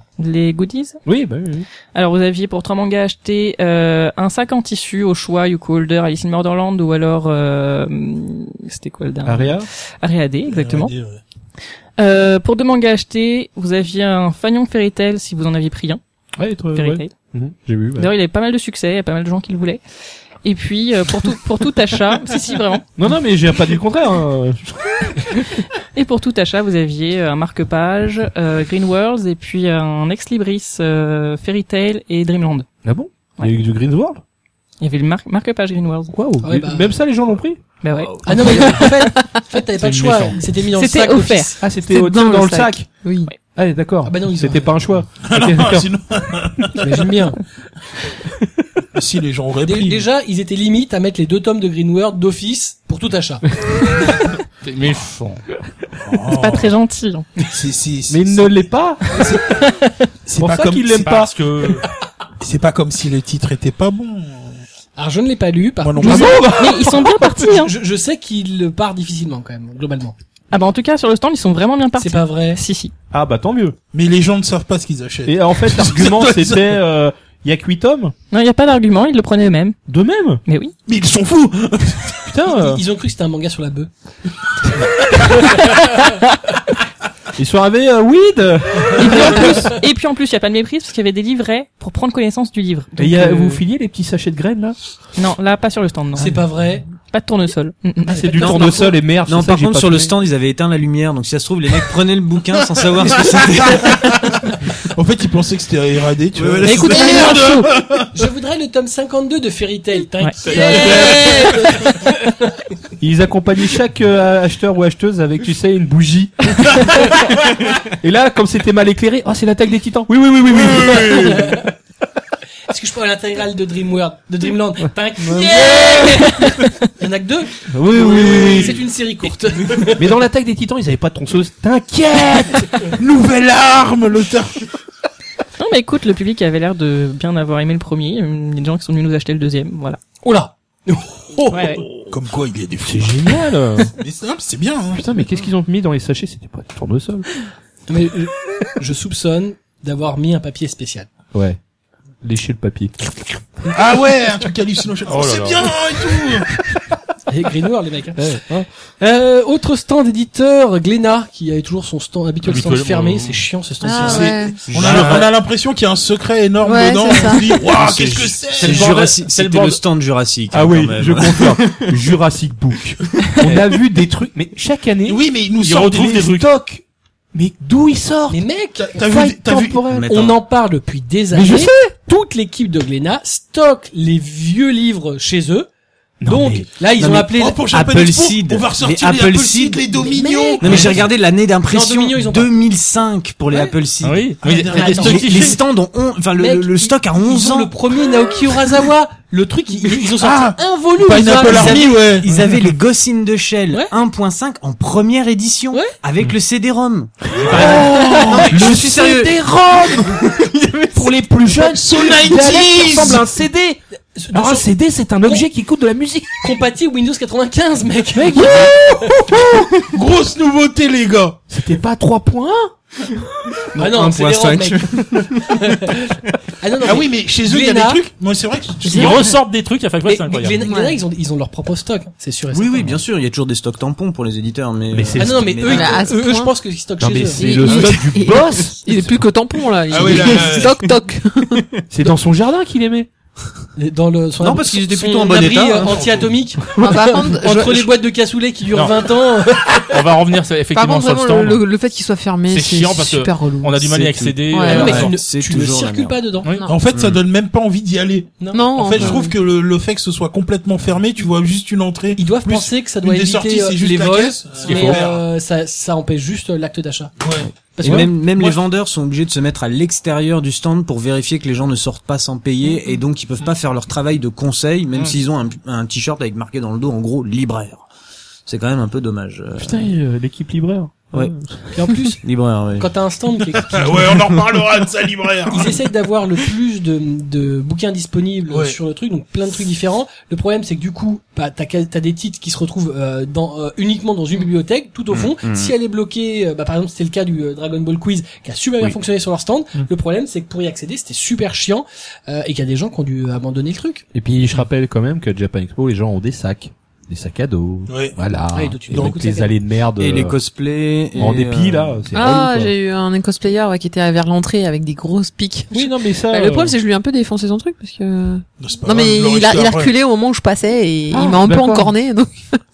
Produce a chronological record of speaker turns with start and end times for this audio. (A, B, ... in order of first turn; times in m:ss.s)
0:00.2-0:01.0 A
0:01.0-0:01.7 B
0:01.9-0:10.9 A
0:09.2-0:09.7 B
0:10.5-0:11.2 C
0:12.0-0:16.0 A
0:16.4-0:18.1 B
0:16.7-0:17.1 A
0:18.0-0:19.8 A
0:20.4-0:22.9 A
0:23.0-0:25.4 B
0:25.2-0:32.7 A
0:32.8-0:34.2 B
0:34.8-0:36.1 A
0:36.1-0:37.6 B
0:36.4-0:36.9 D
0:37.8-0:39.0 A
0:38.2-0:41.5 D
0:38.9-0:39.4 E
0:39.8-0:40.4 F
0:40.8-0:41.4 A
0:41.1-0:43.3 E
0:41.6-0:42.9 B
0:43.5-0:45.9 B
0:44.0-0:44.8 D
0:45.2-0:46.9 C
0:46.8-0:47.4 D
0:48.9-0:50.0 C
0:49.6-0:53.4 D
0:54.6-0:55.4 F
0:56.0-0:56.7 C
0:56.3-0:57.4 A
0:57.4-0:58.6 C
0:58.1-0:59.0 B
1:00.2-1:01.2 C
1:00.4-1:01.4 B
1:01.0-1:01.8 F
1:02.4-1:04.6 C
1:05.0-1:10.1 D
1:05.8-1:06.6 C
1:06.0-1:07.7 A
1:06.0-1:07.0 B
1:10.5-1:12.9 A
1:12.0-1:12.6 D
1:13.1-1:13.8 B
1:13.9-1:16.7 C
1:15.3-1:18.1 B
1:18.3-1:19.8 A
1:19.9-1:20.4 B
1:20.4-1:20.7 A
1:20.8-1:22.3 C
1:22.3-1:22.8 B
1:22.4-1:23.9 D
1:25.5-1:26.2 A
1:27.4-1:29.7 B
1:29.0-1:33.6 A
1:33.0-1:34.8 B
1:35.1-1:36.4 A
1:36.2-1:36.8 D
1:37.0-1:38.7 A
1:38.0-1:40.1 B
1:38.1-1:38.9 D
1:38.4-1:44.1 G
1:43.2-1:48.1 C
1:46.4-1:47.2 G
1:46.7-1:47.6 E
1:46.7-1:47.6 A
1:48.1-1:52.2 D
1:50.2-1:51.1 A
1:50.4-1:51.3 B
1:50.5-1:51.4 C
1:53.0-2:01.6 B
2:01.1-2:01.6 D
2:02.7-2:10.1 D
2:05.2-2:06.1 B
2:05.8-2:06.8 A
2:07.7-2:08.8 B
2:08.0-2:08.7 C
2:09.9-2:12.8 B
2:13.0-2:14.6 C
2:15.6-2:20.0 A
2:20.2-2:21.8 D
2:21.5-2:21.8 A
2:22.1-2:23.3 C
2:22.8-2:23.9 B
2:24.0-2:25.0 C
2:24.9-2:27.3 B
2:27.9-2:31.1 D
2:31.3-2:31.6 B
2:32.2-2:33.0 B
2:33.7-2:36.5 C
2:35.1-2:35.7 F
2:37.3-2:38.5 D
2:38.2-2:38.7 B
2:39.0-2:44.4 D
2:42.5-2:43.4 F
2:43.8-2:44.7 E
2:44.0-2:49.0 C
2:44.7-2:45.1 B
2:44.7-2:45.2 F
2:44.9-2:45.2 G
2:46.6-2:47.6 E
2:47.7-2:51.9 G
2:48.6-2:49.8 B
2:50.5-2:55.2 B
2:55.0-2:56.2 C
2:55.6-2:56.5 F
2:56.0-3:00.1 B
2:58.3-2:59.0 D
2:58.8-2:59.8 C
2:59.8-3:00.4 G
3:00.0-3:05.7 D
3:01.3-3:01.9 B
3:06.2-3:06.7 B
3:06.2-3:07.6 D
3:07.0-3:09.9 G
3:07.3-3:11.1 C
3:10.0-3:11.1 D
3:10.6-3:17.7 G
3:11.7-3:12.5 D
3:14.0-3:15.6 F
3:14.4-3:15.5 C
3:14.7-3:15.6 D
3:16.4-3:22.1 D
3:20.0-3:22.4 C
3:21.4-3:29.4 G
3:27.4-3:30.2 B
3:27.5-3:28.8 C
3:30.0-3:31.1 G
3:30.9-3:33.8 B
3:31.6-3:33.2 C
3:34.1-3:34.7 D
3:34.3-3:36.6 B
3:36.4-3:38.5 D
3:38.1-3:39.6 B
3:39.8-3:41.4 C
3:41.5-3:42.7 B
3:43.7-3:45.6 G
3:43.8-3:48.0 D
3:46.8-3:49.2 C
3:48.9-3:49.2 E
3:48.9-3:50.6 F
3:50.1-3:52.9 D
3:50.6-3:51.0 E
3:52.5-3:56.1 G
3:54.9-3:55.7 B
3:55.2-3:57.5 D
3:55.6-3:56.6 E
3:57.0-3:59.1 B
3:57.3-4:01.7 E
3:59.9-4:00.8 C
4:01.9-4:03.1 B
4:03.8-4:09.9 D
4:04.4-4:06.3 G
4:06.8-4:07.9 E
4:09.9-4:11.6 F
4:10.7-4:15.0 E
4:12.5-4:15.1 F
4:14.1-4:16.4 G
4:14.7-4:16.5 D
4:16.6-4:25.2 C
4:16.9-4:17.2 G
4:18.4-4:18.6 D
4:18.5-4:19.3 E
4:22.2-4:27.1 D
4:24.7-4:25.0 G
4:27.2-4:27.5 C
4:27.4-4:37.9 G
4:27.8-4:28.1 D
4:28.2-4:28.6 C
4:38.4-4:39.8 G
4:39.6-4:42.1 B
4:41.7-4:42.2 D
4:42.2-4:42.9 G
4:42.8-4:43.9 D
4:43.7-4:45.9 C
4:45.5-5:04.0 D
4:48.5-4:48.8 C
4:55.1-4:55.7 G
5:04.1-5:10.3 B
5:07.9-5:08.2 C
5:08.5-5:09.5 D
5:10.0-5:12.0 G
5:11.1-5:12.7 B
5:12.1-5:22.6 E
5:15.7-5:16.8 B
5:18.6-5:19.9 C
5:21.1-5:21.9 B